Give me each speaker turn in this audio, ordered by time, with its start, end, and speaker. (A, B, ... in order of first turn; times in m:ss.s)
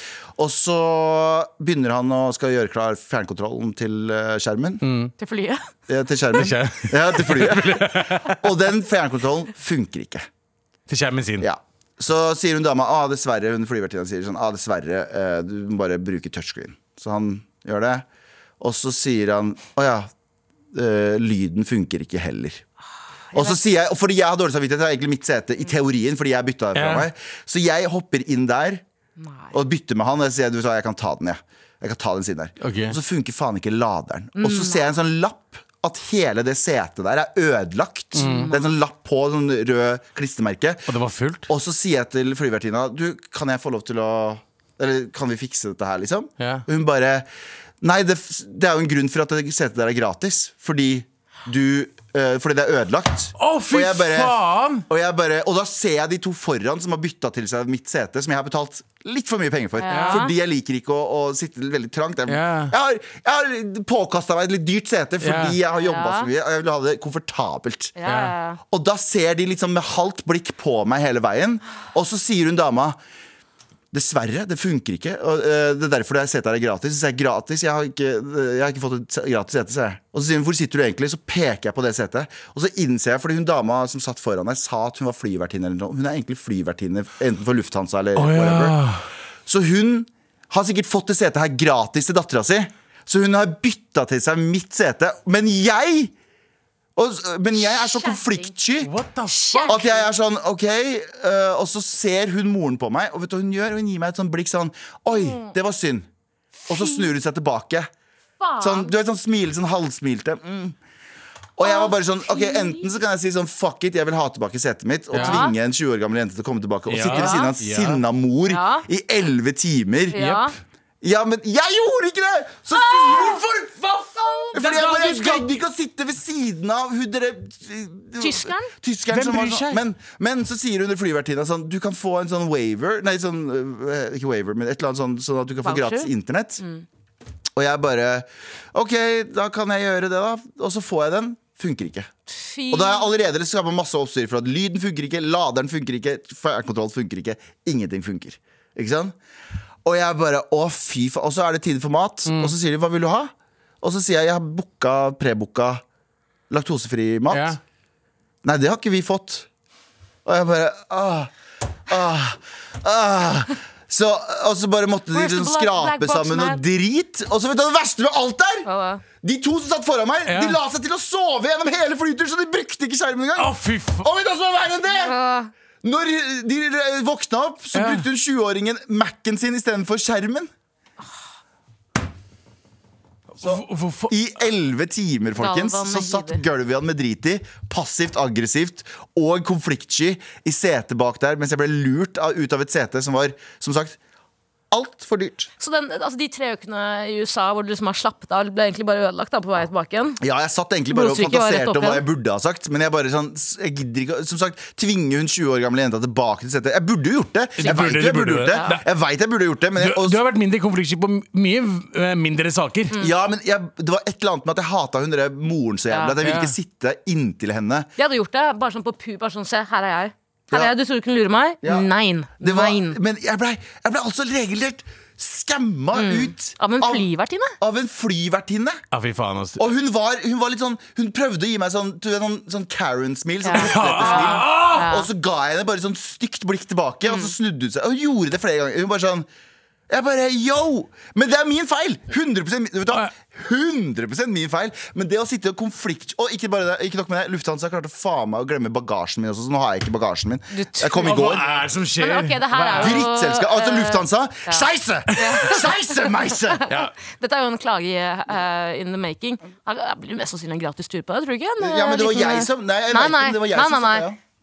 0:00.4-0:04.8 A
0:04.8-0:05.1 B
0:05.2-0:05.6 C
0:05.9-0:10.3 A
0:06.3-0:08.4 B
0:10.9-0:11.5 B
0:11.4-0:18.0 A
0:18.6-0:20.1 A
0:20.7-0:22.6 A
0:23.3-0:28.8 A
0:26.8-0:27.1 B
0:29.2-0:29.5 C
0:29.5-0:40.9 A
0:32.6-0:33.0 B
0:34.4-0:34.8 C
0:38.2-0:38.5 B
0:38.2-0:38.6 C
0:40.9-0:41.5 B
0:41.5-0:47.3 A
0:46.4-0:46.6 B
0:47.8-1:08.0 A
0:53.4-0:54.8 B
0:59.8-1:00.3 C
0:59.9-1:00.2 B
1:02.3-1:02.7 B
1:05.2-1:05.6 B
1:05.7-1:06.3 C
1:08.0-1:08.6 C
1:08.1-1:08.4 B
1:08.7-1:13.0 A
1:13.9-1:28.8 A
1:28.2-1:29.0 B
1:29.5-1:36.1 A
1:37.0-1:38.9 A
1:38.0-1:38.4 C
1:38.8-1:39.8 B
1:39.3-1:40.1 C
1:39.6-1:46.1 A
1:45.1-1:45.6 C
1:46.7-1:47.1 C
1:46.7-1:47.9 A
1:48.4-1:48.9 C
1:48.6-1:50.8 A
1:51.6-2:00.2 A
1:51.6-1:52.9 C
1:55.1-1:55.5 B
1:55.2-1:55.6 C
1:56.9-1:58.0 B
1:57.1-1:57.5 C
1:58.5-1:58.8 C
2:00.1-2:00.5 C
2:00.2-2:00.5 B
2:01.0-2:03.7 A
2:02.8-2:05.5 B
2:04.5-2:16.6 A
2:08.2-2:08.7 C
2:09.1-2:09.8 B
2:15.6-2:16.8 C
2:17.6-2:22.1 A
2:22.3-2:23.1 C
2:22.7-2:29.2 A
2:29.8-2:35.8 A
2:32.3-2:32.5 B
2:36.5-2:37.6 A
2:37.3-2:37.6 B
2:38.4-2:39.5 A
2:40.2-2:41.3 A
2:41.9-2:48.7 A
2:45.1-2:46.6 C
2:48.6-2:49.0 C
2:49.2-2:55.2 A
2:50.3-2:50.6 B
2:53.4-2:54.1 B
2:54.9-2:55.5 C
2:55.8-3:00.5 A
2:57.7-2:58.0 B
3:03.4-3:04.2 B
3:03.4-3:14.0 A
3:05.4-3:06.4 C
3:14.7-3:15.5 A
3:15.6-3:20.2 C
3:20.2-3:30.2 A
3:20.9-3:22.0 C
3:27.6-3:28.8 B
3:27.6-3:28.0 C
3:28.5-3:28.8 C
3:29.8-3:32.9 B
3:33.0-3:37.9 A
3:36.2-3:36.5 B
3:38.0-3:43.0 C
3:41.6-3:41.9 A
3:42.4-3:47.1 A
3:45.9-3:47.5 C
3:47.6-3:48.8 A
3:48.9-3:49.6 B
3:49.6-3:59.3 A
3:53.4-3:55.1 C
3:53.6-3:54.9 B
3:57.0-3:57.3 C
3:59.9-4:11.4 A
4:10.5-4:11.4 C
4:11.0-4:13.0 B
4:12.0-4:24.1 C
4:12.7-4:16.6 A
4:21.6-4:24.2 A